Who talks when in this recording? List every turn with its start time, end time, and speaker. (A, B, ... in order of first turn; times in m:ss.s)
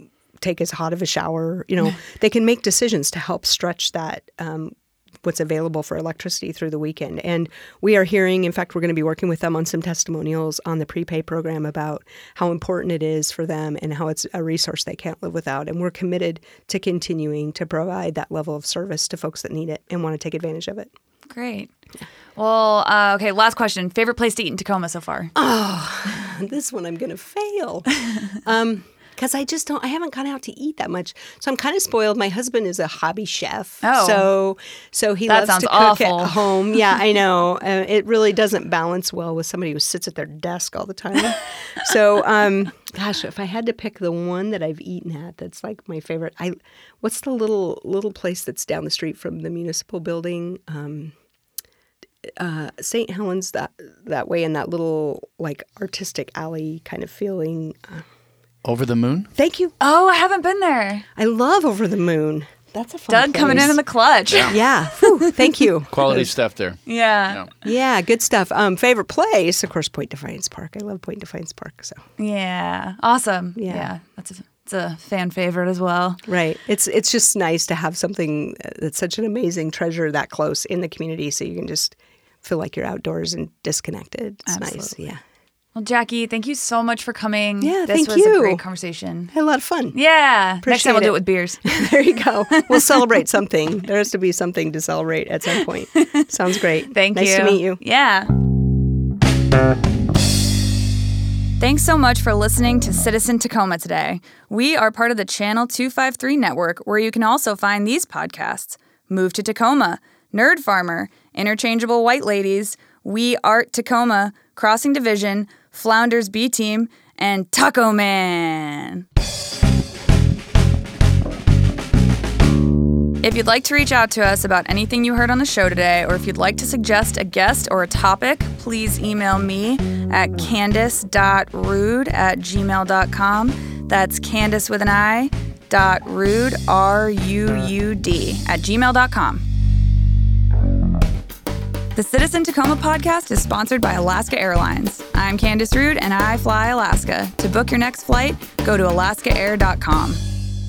0:00.4-0:20.9 A
0:21.3-0:21.7 B
0:22.4-0:25.3 B
0:25.3-0:51.2 A
0:33.8-0:34.3 B
0:35.3-0:36.5 B
0:52.2-0:58.0 A
0:58.6-0:59.3 C
0:59.3-0:59.7 A
0:59.8-1:01.0 B
1:01.2-1:03.8 A
1:03.1-1:05.4 B
1:04.3-1:04.5 C
1:04.4-1:06.3 A
1:05.9-1:07.5 C
1:06.8-1:07.5 B
1:07.6-1:12.0 A
1:12.2-1:16.2 B
1:13.6-1:13.9 A
1:16.2-1:25.2 A
1:24.4-1:24.9 B
1:25.7-1:29.3 B
1:27.6-1:28.6 A
1:29.3-1:30.0 A
1:29.9-1:31.6 B
1:30.6-1:37.8 A
1:36.9-1:38.3 B
1:41.6-1:59.0 B
2:03.2-2:19.4 B
2:21.9-2:30.2 B